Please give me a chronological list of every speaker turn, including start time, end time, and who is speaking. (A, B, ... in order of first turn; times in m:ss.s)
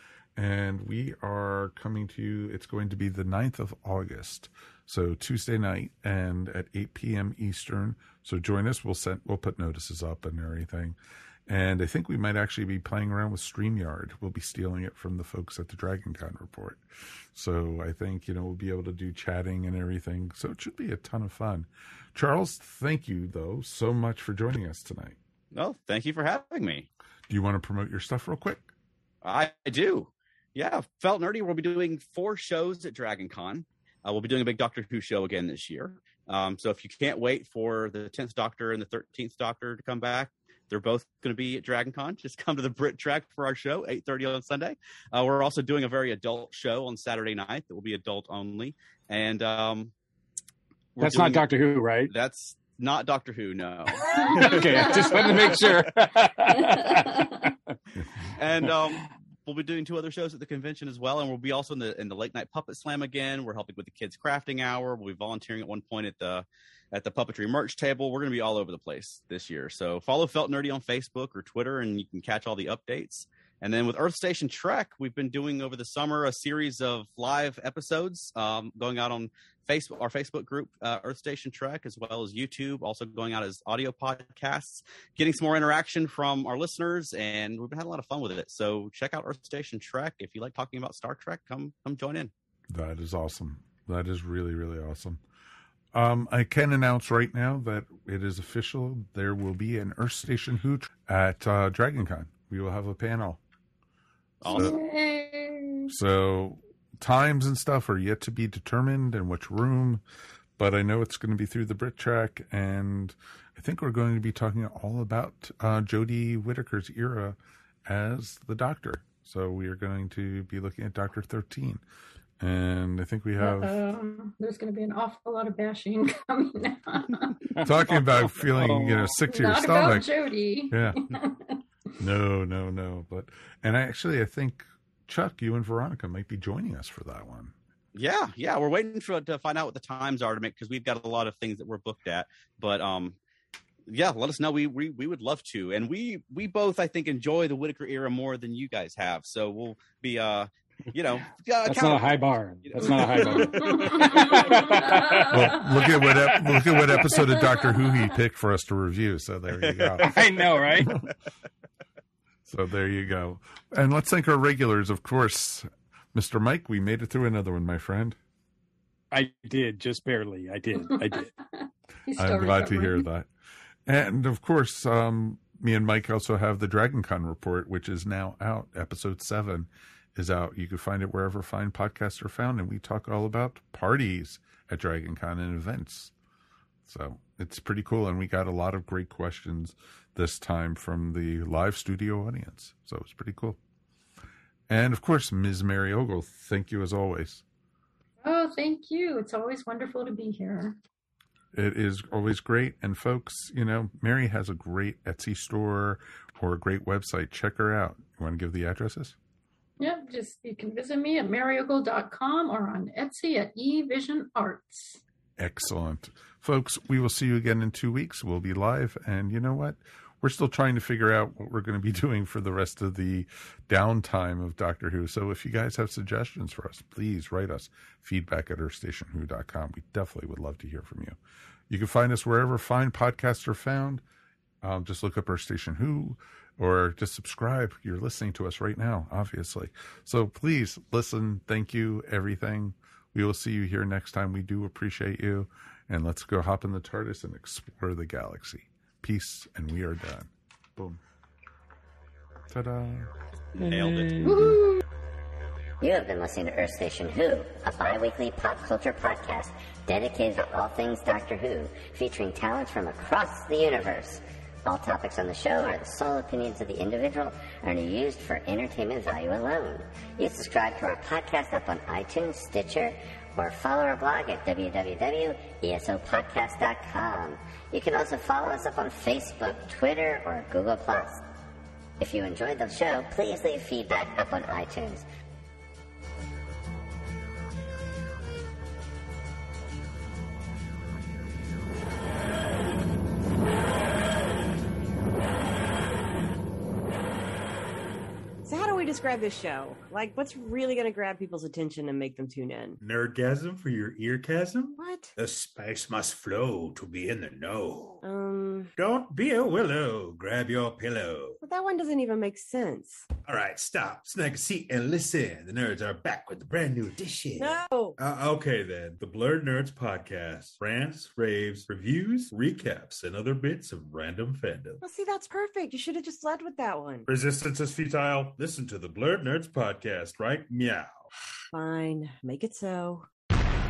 0:00.4-0:25.2 A
0:25.5-0:26.9 B
0:27.3-0:28.7 A
0:29.2-0:49.9 B
0:50.9-0:51.4 B
0:51.0-0:52.1 C
0:52.1-0:55.7 B
0:54.1-0:55.3 D
0:54.3-0:57.5 C
0:58.3-1:32.3 B
1:32.7-1:35.2 A
1:35.9-1:43.4 A
1:44.4-1:44.7 B
1:44.4-1:44.8 A
1:44.5-1:45.8 D
1:45.9-1:50.0 A
1:50.6-2:01.8 A
2:02.4-2:03.8 A
2:03.4-2:07.5 D
2:07.6-2:09.1 C
2:07.6-2:10.1 A
2:09.2-2:11.6 D
2:10.7-2:11.0 A
2:12.0-2:17.5 A
2:17.9-2:23.2 B
2:23.9-2:34.8 B
2:31.6-2:37.2 C
2:33.1-2:35.5 D
2:35.3-2:40.2 A
2:40.0-2:40.9 C
2:42.4-2:48.2 A
2:49.1-2:51.3 C
2:51.6-2:53.0 D
2:52.2-2:53.3 A
2:53.8-3:06.1 A
3:06.8-3:13.6 A
3:14.7-3:17.4 A
3:18.2-3:20.8 D
3:21.5-3:29.1 A
3:29.8-3:35.0 D
3:35.4-3:51.2 A
3:51.7-3:54.0 A
3:54.6-4:11.0 A
4:12.5-4:13.1 A
4:13.6-4:14.3 B
4:13.8-4:14.4 C
4:14.2-4:14.8 D
4:15.8-4:41.2 E
4:42.0-4:45.0 E
4:58.4-5:02.8 F
5:02.8-5:08.0 G
5:04.8-5:05.1 F
5:08.0-5:08.7 F
5:08.8-5:11.4 G
5:11.4-5:13.0 F
5:13.2-5:24.8 G
5:17.4-5:18.0 F
5:24.8-5:27.1 F
5:27.1-5:31.0 G
5:31.5-5:33.0 F